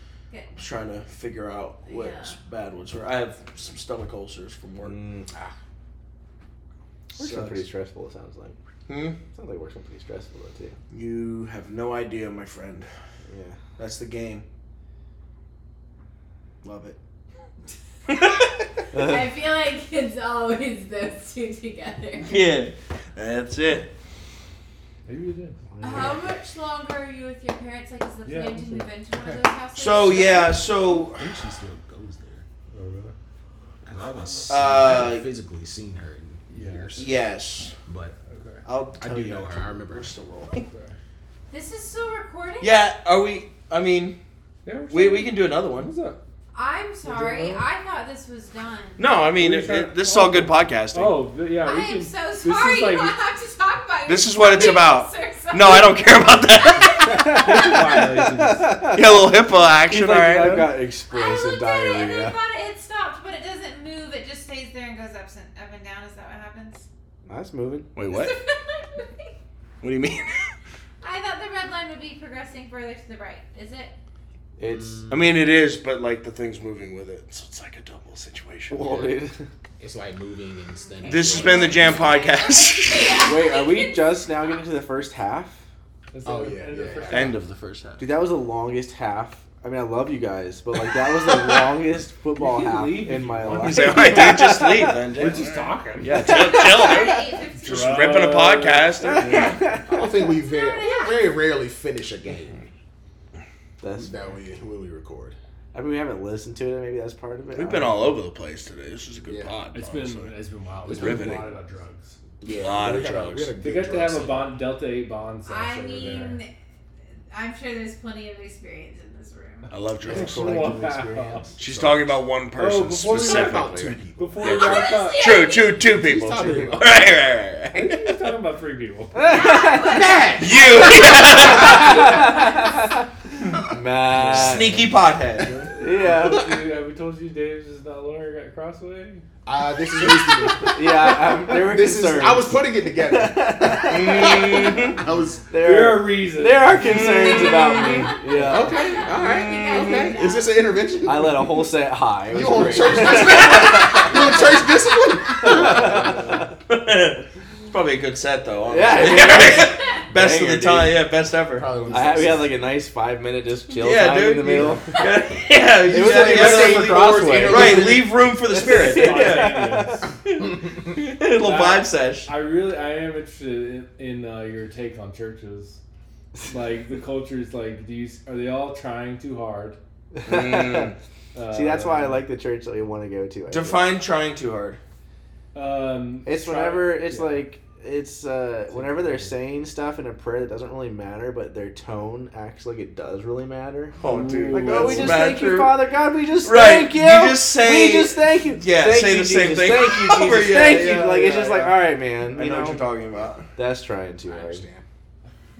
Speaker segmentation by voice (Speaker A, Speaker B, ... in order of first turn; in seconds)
Speaker A: 0.5-4.9, 7.1-7.6, 8.9-9.2, 10.9-12.9, 13.8-14.4, 16.6-17.0, 18.1-18.5, 22.2-23.9, 29.7-31.3, 34.5-35.3, 37.0-37.8, 38.6-40.6, 42.6-44.2, 44.9-45.9, 49.0-51.3, 54.1-57.3, 58.9-60.7, 67.9-68.3, 69.8-70.5, 75.1-79.1, 81.1-83.2, 87.1-88.0, 93.5-99.6, 107.5-110.3, 110.8-111.5, 112.4-113.5, 119.7-128.0, 130.4-132.1, 134.1-135.7, 143.8-145.0, 146.8-148.1, 149.1-150.2, 156.7-161.7, 163.7-169.6, 170.4-172.3, 180.2-180.9, 183.5-184.8, 194.0-195.8, 196.4-201.8, 202.3-203.4
Speaker B: 1.9-2.4, 18.9-22.3, 25.8-30.6, 41.5-42.9, 46.5-49.1, 51.5-56.1, 56.9-57.5, 61.0-66.9, 68.1-69.3, 71.0-73.9, 80.7-84.2, 96.6-98.0, 100.3-101.4, 115.5-116.5, 117.3-119.7, 124.4-125.9, 129.3-132.8, 147.2-150.7
Speaker C: 4.8-5.3, 7.2-8.6, 9.3-10.8, 13.3-13.6, 18.9-19.3, 25.7-26.3, 57.1-59.2, 59.8-62.4, 67.3-67.9, 74.6-75.1, 78.7-79.5, 83.2-85.6, 88.0-95.0, 96.0-97.3, 99.0-100.3, 103.8-104.1, 105.7-108.2, 129.2-130.0, 131.4-134.9, 135.8-136.4, 140.6-144.8, 145.5-148.9, 151.1-154.7, 155.3-156.5, 158.7-161.0, 161.9-165.2, 165.9-170.0, 180.1-180.9, 181.5-183.8, 186.2-194.0, 194.5-202.8, 203.5-204.6
Speaker D: 25.1-26.1, 28.2-28.9, 32.7-33.1, 33.9-34.8, 36.5-37.2, 38.2-38.6, 40.5-41.0, 44.6-46.2, 47.0-47.7, 49.4-53.2, 56.2-58.9, 86.1-87.4, 92.3-94.2, 95.1-96.2, 97.5-99.6, 109.7-112.2, 113.6-116.4, 120.1-121.5, 122.5-125.3, 127.7-129.6, 135.7-139.2, 145.6-147.1, 155.8-156.4, 168.6-170.2, 171.4-175.8, 176.4-179.8, 181.3-182.3, 185.5-187.4, 188.7-189.4, 194.0-195.2, 200.6-201.7
Speaker E: 29.1-29.4, 30.9-32.5, 33.8-37.1, 37.9-38.1, 39.0-40.1, 79.8-82.1, 86.2-87.4, 99.9-102.6, 104.0-105.4, 111.0-111.3, 112.4-114.6, 120.0-122.2, 123.0-124.7, 125.9-127.0, 129.7-130.8, 131.8-132.1, 139.4-145.5, 148.3-151.7, 152.3-156.4, 161.5-162.7, 165.8-168.1, 204.2-204.8